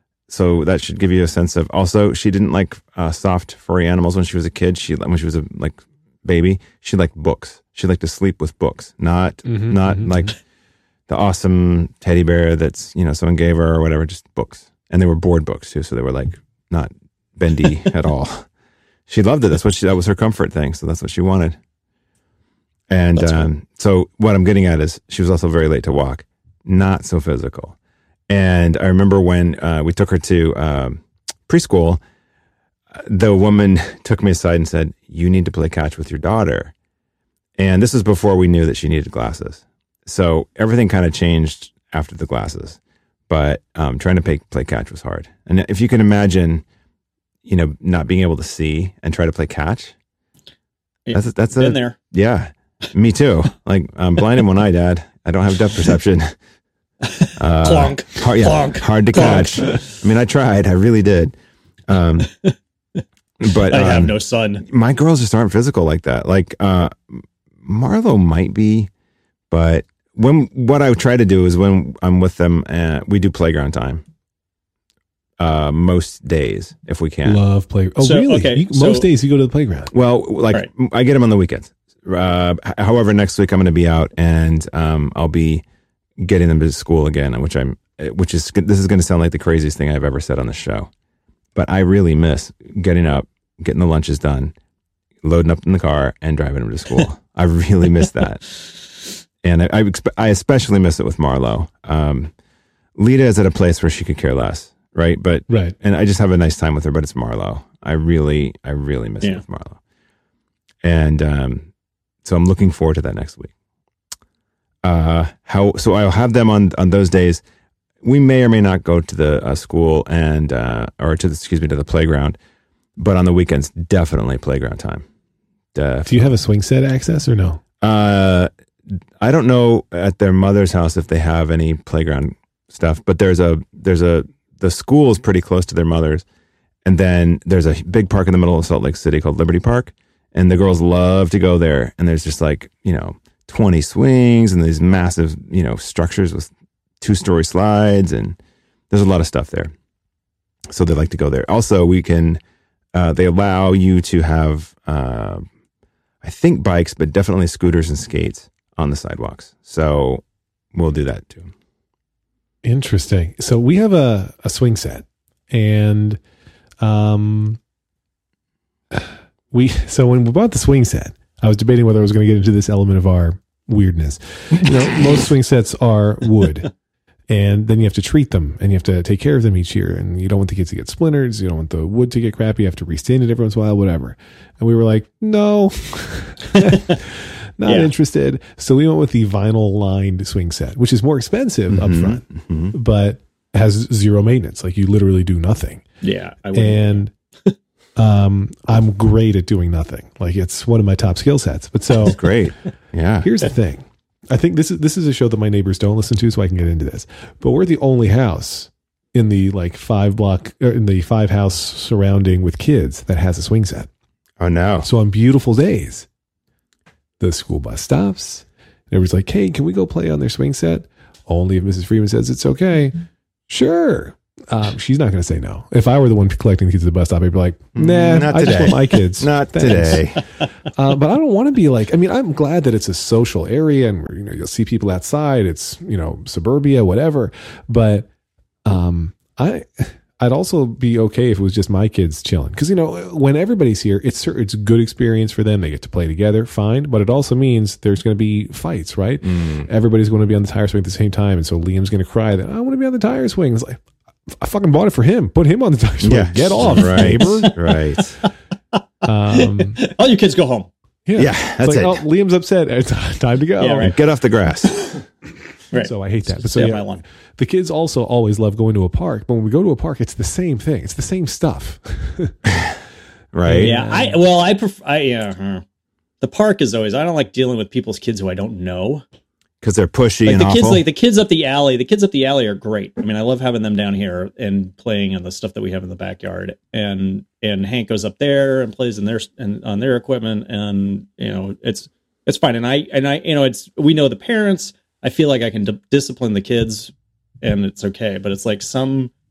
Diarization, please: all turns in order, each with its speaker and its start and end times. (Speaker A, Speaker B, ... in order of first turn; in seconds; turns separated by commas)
Speaker A: 0.3-10.4, Speaker B: 9.4-10.3, Speaker A: 11.1-18.5, Speaker A: 19.1-21.6, Speaker A: 22.9-27.8, Speaker C: 23.2-23.5, Speaker A: 28.3-32.0, Speaker A: 32.9-36.7, Speaker A: 37.6-46.6, Speaker A: 47.5-50.0, Speaker C: 51.1-52.0, Speaker A: 51.1-56.4, Speaker C: 57.1-59.9, Speaker A: 57.4-61.3, Speaker A: 61.9-62.3, Speaker A: 63.4-68.9, Speaker C: 63.7-64.6, Speaker A: 69.5-74.0, Speaker A: 75.4-77.4, Speaker B: 77.2-79.9, Speaker C: 78.0-79.1, Speaker A: 79.9-85.6, Speaker A: 86.2-90.9, Speaker A: 91.5-94.5, Speaker A: 95.2-98.5, Speaker A: 99.4-102.3, Speaker A: 103.0-109.8, Speaker B: 105.5-105.8, Speaker A: 110.8-111.7, Speaker A: 112.2-113.5, Speaker A: 114.8-117.4, Speaker A: 118.0-122.4, Speaker A: 123.0-125.1, Speaker A: 125.7-126.3, Speaker B: 126.1-127.6, Speaker A: 127.8-128.5, Speaker A: 129.2-136.2, Speaker A: 136.8-148.4, Speaker A: 148.9-149.7, Speaker A: 150.7-152.4, Speaker A: 152.9-155.5, Speaker A: 156.2-160.2, Speaker A: 160.7-161.5, Speaker B: 162.6-166.2, Speaker B: 166.8-167.6, Speaker B: 168.9-176.7, Speaker A: 174.7-174.9, Speaker B: 177.3-195.8, Speaker C: 186.5-187.0, Speaker C: 187.7-187.9, Speaker A: 191.7-192.8, Speaker C: 196.0-197.6, Speaker B: 196.5-197.1, Speaker B: 198.0-202.2, Speaker A: 202.1-203.4, Speaker B: 203.2-213.9, Speaker A: 214.4-214.9, Speaker B: 214.8-216.1, Speaker B: 217.2-222.9, Speaker B: 223.5-230.1, Speaker A: 227.8-230.2, Speaker B: 230.7-238.1, Speaker B: 238.7-257.5, Speaker A: 249.2-249.7, Speaker A: 256.0-258.2, Speaker C: 256.6-258.3, Speaker B: 259.1-259.8, Speaker C: 259.3-260.7, Speaker B: 261.1-263.9, Speaker A: 261.2-262.0, Speaker C: 263.6-264.0, Speaker A: 263.8-264.7, Speaker C: 264.7-265.0, Speaker C: 265.7-267.0, Speaker B: 265.8-272.4, Speaker A: 272.5-272.8, Speaker A: 273.3-273.7, Speaker B: 273.5-274.2, Speaker C: 273.6-275.6, Speaker C: 276.2-279.0, Speaker A: 279.6-280.8, Speaker C: 280.3-299.1